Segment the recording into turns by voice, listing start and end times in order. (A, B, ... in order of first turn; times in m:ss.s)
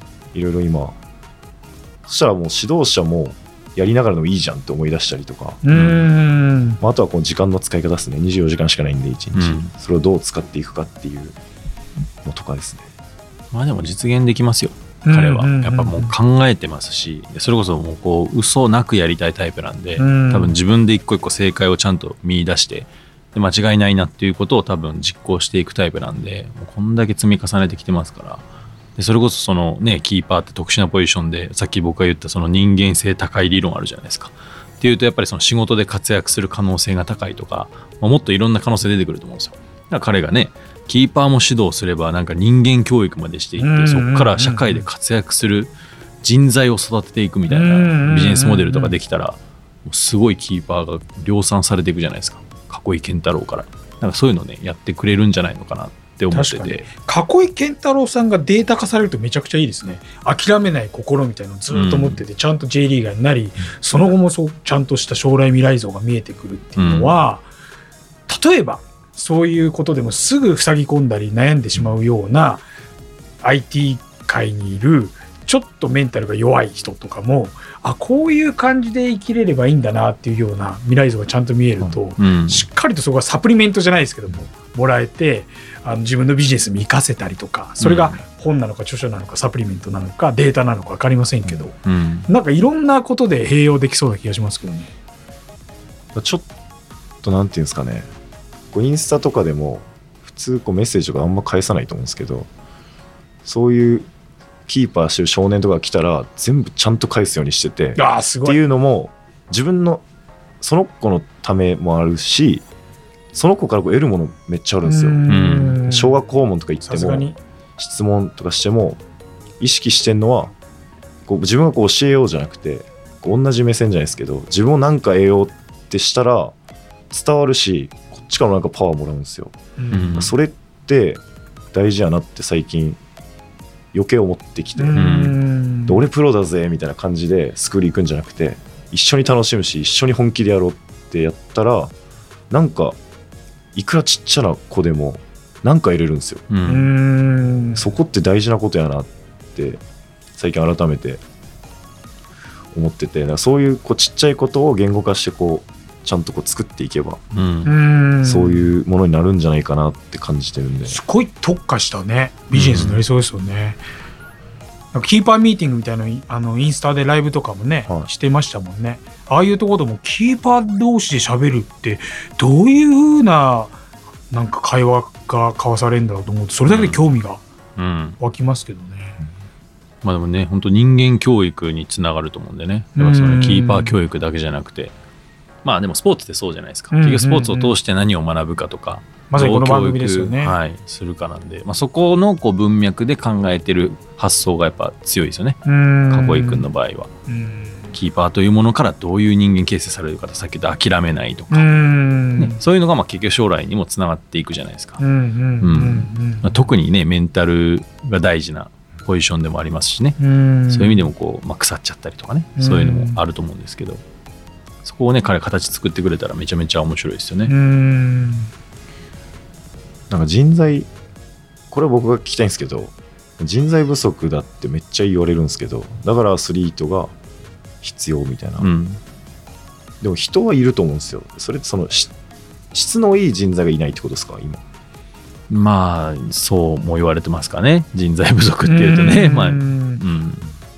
0:00.3-0:01.0 A
0:02.1-0:05.6 A
0:05.6-0:06.8 B
0:05.7-0:06.1 C
0:06.8-0:11.4 A
0:09.4-0:09.7 C
0:12.2-0:12.8 A
0:13.5-0:28.4 C
0:15.1-0:16.2 B
0:20.0-0:20.6 B
0:29.0-0:56.9 C
0:43.6-0:44.9 B
0:47.5-0:49.0 B
0:56.3-1:07.5 B
1:01.7-1:02.2 C
1:06.8-1:07.2 C
1:08.3-1:12.7 B
1:13.4-1:31.8 B
1:22.2-1:22.7 C
1:27.8-1:28.2 C
1:31.8-1:32.3 C
1:32.3-1:34.9 B
1:36.2-1:36.5 A
1:37.2-1:38.1 A
1:38.7-1:42.5 A
1:43.4-1:44.1 A
1:44.7-1:50.0 A
1:48.0-1:48.6 B
1:50.6-1:52.6 A
1:53.3-1:55.2 A
1:54.8-1:56.2 B
1:55.3-1:55.8 C
1:55.8-1:57.3 A
1:56.8-1:57.4 B
1:57.8-1:59.0 A
1:59.6-2:00.5 A
2:01.3-2:06.5 A
2:07.1-2:09.5 A
2:09.8-2:10.2 B
2:09.9-2:10.4 C
2:10.2-2:11.2 A
2:11.7-2:13.0 A
2:13.9-2:15.2 A
2:14.8-2:16.1 B
2:15.0-2:15.4 C
2:15.9-2:21.9 A
2:22.5-2:23.0 A
2:23.7-2:26.5 A
2:26.5-2:26.9 C
2:26.6-2:27.9 B
2:27.8-2:29.8 A
2:30.4-2:31.2 A
2:32.7-2:37.2 A
2:37.4-2:37.7 C
2:37.6-2:38.7 B
2:38.2-2:41.0 A
2:40.9-2:43.8 B
2:42.5-2:43.0 C
2:44.9-2:53.8 B
2:54.3-2:57.4 B
2:56.7-2:57.0 C
2:57.8-2:58.2 C
2:58.2-2:59.2 B
3:00.0-3:04.9 C
3:03.0-3:04.0 B
3:05.6-3:17.1 C
3:06.9-3:07.8 B
3:09.3-3:10.6 B
3:15.6-3:16.7 B
3:17.3-3:17.9 B
3:17.9-3:21.8 C
3:21.5-3:22.6 B
3:22.4-3:25.0 C
3:25.0-3:26.7 B
3:25.6-3:34.0 C
3:30.2-3:31.1 B
3:32.6-3:33.2 B
3:34.8-3:37.5 C
3:37.5-3:38.5 B
3:40.1-3:40.9 A
3:41.7-3:47.1 A
3:47.8-3:48.7 A
3:48.6-3:49.0 C
3:50.0-3:52.1 A
3:52.7-3:54.6 A
3:55.5-4:00.5 C
3:58.6-4:00.0 B